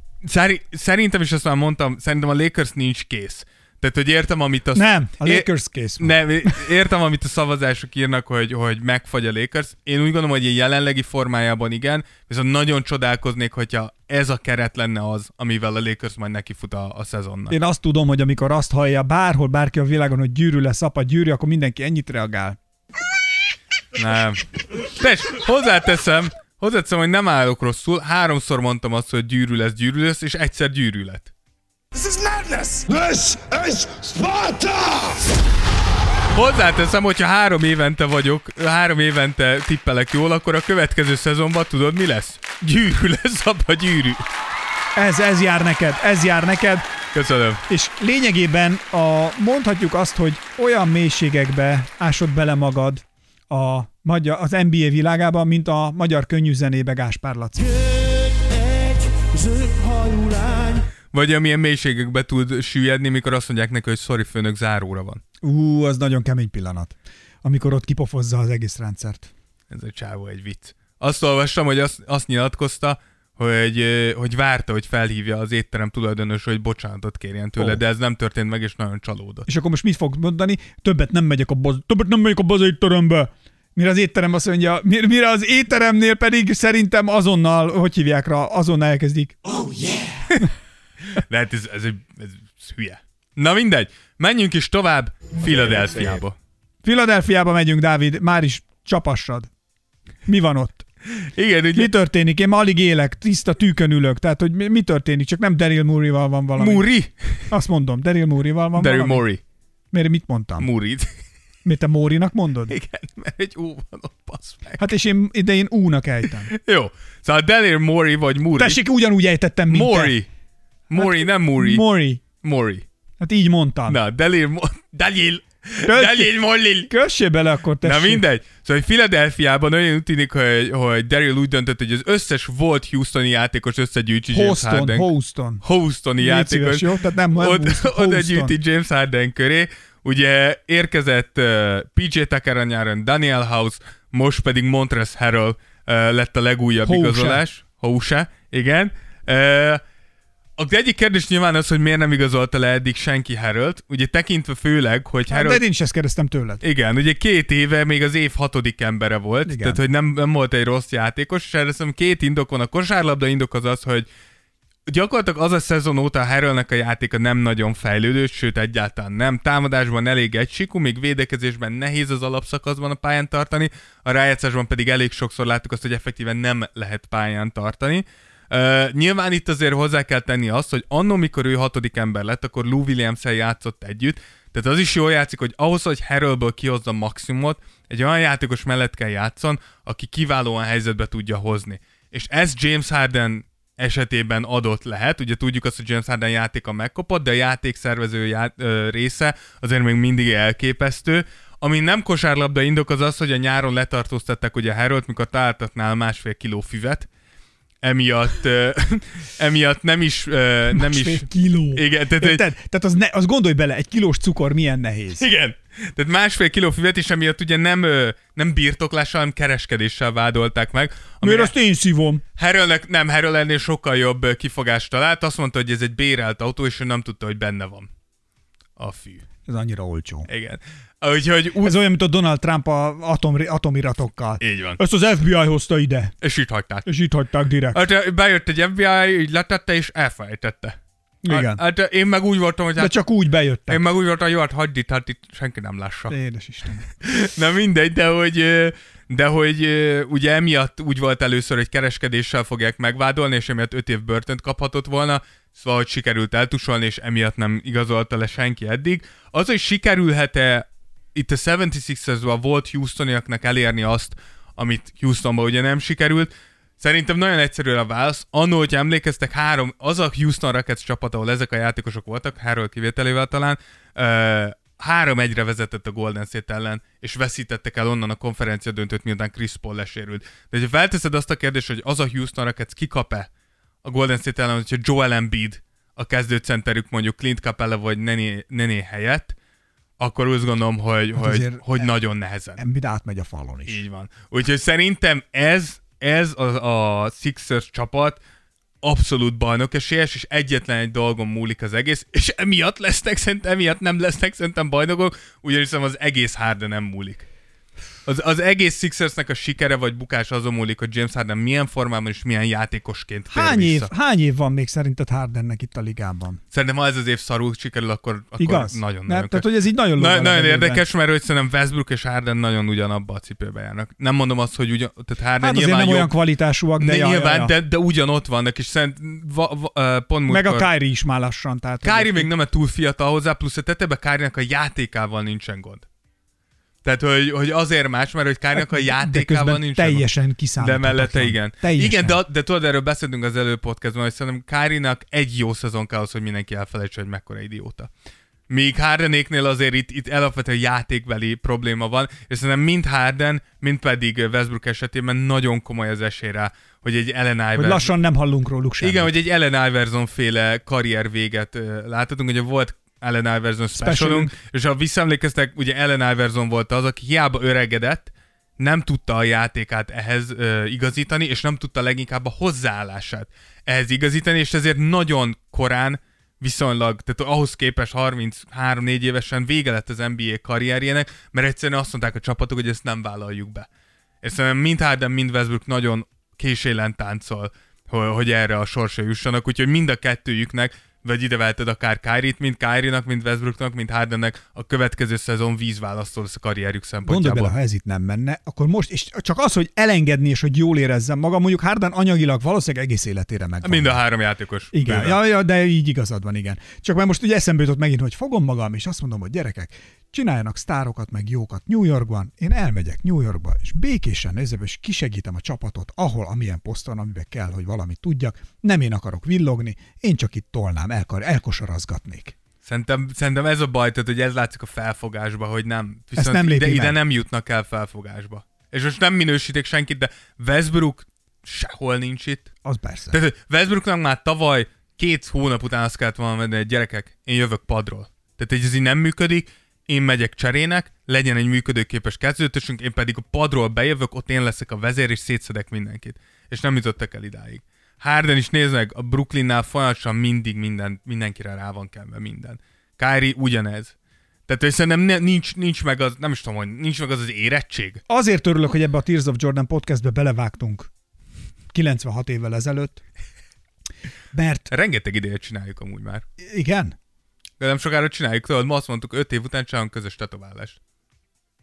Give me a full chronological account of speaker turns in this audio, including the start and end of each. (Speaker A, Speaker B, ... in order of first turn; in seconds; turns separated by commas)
Speaker A: 0.2-5.5, Speaker B: 4.7-6.6, Speaker A: 6.0-17.6, Speaker B: 17.5-22.6, Speaker A: 23.9-31.3, Speaker C: 31.9-35.2, Speaker A: 36.3-44.2, Speaker B: 45.0-46.9, Speaker A: 47.1-47.6, Speaker B: 47.7-60.9, Speaker A: 61.1-65.2, Speaker B: 65.4-69.3, Speaker A: 69.7-79.5, Speaker B: 79.5-89.8, Speaker A: 91.1-96.3, Speaker B: 96.8-99.5, Speaker B: 100.2-100.8, Speaker A: 101.2-101.9, Speaker B: 101.7-106.9, Speaker A: 106.6-107.3, Speaker B: 107.5-109.2, Speaker A: 108.8-109.4, Speaker B: 109.9-110.7, Speaker A: 110.6-111.1, Speaker B: 111.6-112.7, Speaker A: 112.7-114.8, Speaker B: 114.8-116.5, Speaker A: 116.5-118.8, Speaker B: 118.5-120.2, Speaker A: 119.7-120.3, Speaker A: 120.9-122.8, Speaker B: 121.0-122.2, Speaker B: 123.2-124.0, Speaker A: 123.9-126.9, Speaker B: 125.8-128.2, Speaker A: 127.8-135.1, Speaker B: 134.3-135.6, Speaker A: 135.6-149.8, Speaker B: 136.2-138.5, Speaker B: 146.8-147.4, Speaker A: 150.6-155.6, Speaker B: 155.3-156.6, Speaker A: 156.6-164.1, Speaker B: 159.4-159.8, Speaker A: 164.9-207.1, Speaker A: 207.8-212.4, Speaker B: 210.7-215.2, Speaker A: 215.2-221.5, Speaker B: 221.2-222.2, Speaker A: 222.4-227.9, Speaker A: 228.8-229.2, Speaker B: 229.5-230.3, Speaker A: 230.3-231.7, Speaker B: 231.6-236.1, Speaker A: 234.4-234.8, Speaker A: 236.2-236.9, Speaker B: 236.8-237.8, Speaker A: 237.7-240.8, Speaker B: 241.2-241.6, Speaker A: 241.3-242.9, Speaker B: 242.8-243.8, Speaker A: 243.7-246.2, Speaker B: 246.1-246.8, Speaker A: 247.0-283.3, Speaker A: 283.8-289.3, Speaker A: 290.0-292.6, Speaker B: 291.1-291.9, Speaker B: 292.6-293.8, Speaker A: 293.7-298.2, Speaker A: 298.8-307.2, Speaker A: 308.1-313.9, Speaker B: 313.3-316.4, Speaker A: 316.5-326.1, Speaker B: 318.4-320.8, Speaker B: 325.4-327.5, Speaker A: 326.8-330.7, Speaker B: 330.3-332.3, Speaker A: 331.8-335.9, Speaker A: 336.8-340.1, Speaker B: 338.5-342.2, Speaker A: 340.6-347.9, Speaker A: 348.5-357.9, Speaker B: 357.5-359.1, Speaker A: 358.8-383.7, Speaker B: 363.7-364.3, Speaker A: 384.2-397.5, Speaker B: 397.0-404.0, Speaker A: 403.6-405.2, Speaker B: 404.7-422.3, Speaker A: 422.6-432.5, Speaker B: 426.1-427.0, Speaker B: 432.6-433.2, Speaker A: 433.1-453.9, Speaker A: 454.5-458.0, Speaker B: 458.1-460.9, Speaker B: 461.7-463.0, Speaker B: 464.3-464.7, Speaker A: 464.7-466.2, Speaker B: 466.4-466.9, Speaker A: 467.6-470.8